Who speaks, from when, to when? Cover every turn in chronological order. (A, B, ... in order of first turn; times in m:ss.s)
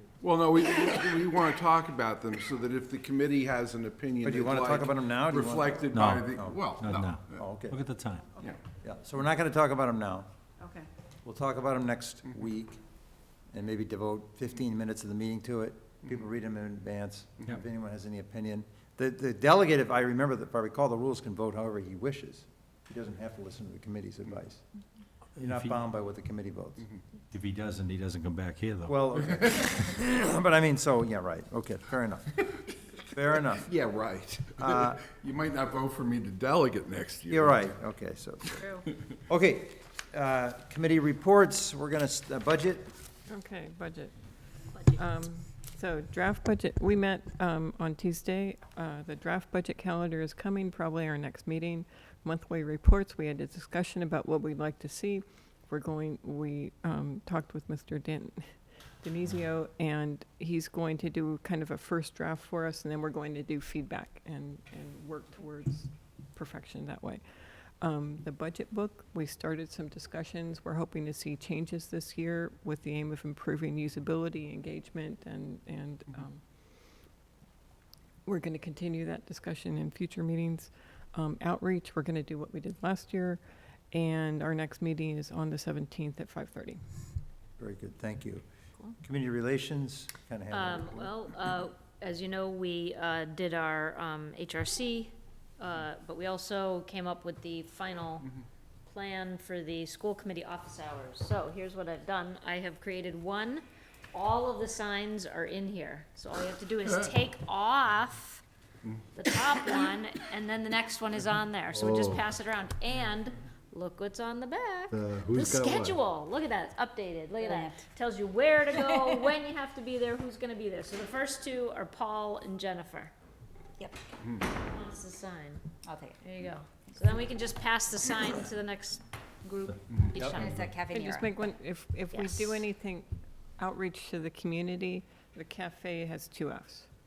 0:00.2-0:07.6 A
0:04.2-0:06.7 B
0:05.9-0:06.2 C
0:06.8-0:08.2 C
0:07.3-0:07.8 B
0:08.8-0:10.3 B
0:11.2-0:12.8 B
0:13.5-0:24.6 B
0:25.4-0:26.9 B
0:25.4-0:25.8 C
0:27.3-0:28.9 C
0:28.9-0:32.4 B
0:33.1-0:33.6 B
0:33.6-0:37.7 A
0:34.6-0:35.0 B
0:37.3-0:38.7 B
0:38.6-0:38.9 A
0:39.3-0:42.9 B
0:43.3-1:16.5 D
0:44.7-0:45.0 E
1:18.3-1:26.8 D
1:27.6-1:28.4 B
1:29.0-1:31.1 B
1:30.5-1:38.3 E
1:38.9-1:48.4 E
1:49.1-2:03.1 E
1:51.8-1:52.2 C
1:55.0-1:55.6 C
1:57.4-1:57.9 F
1:58.7-1:59.2 F
2:04.5-2:05.6 E
2:05.8-2:06.2 F
2:06.2-2:09.0 E
2:09.6-2:10.6 E
2:09.9-2:10.2 A
2:10.2-2:10.4 B
2:10.2-2:11.3 F
2:10.8-2:16.9 D
2:12.1-2:12.6 F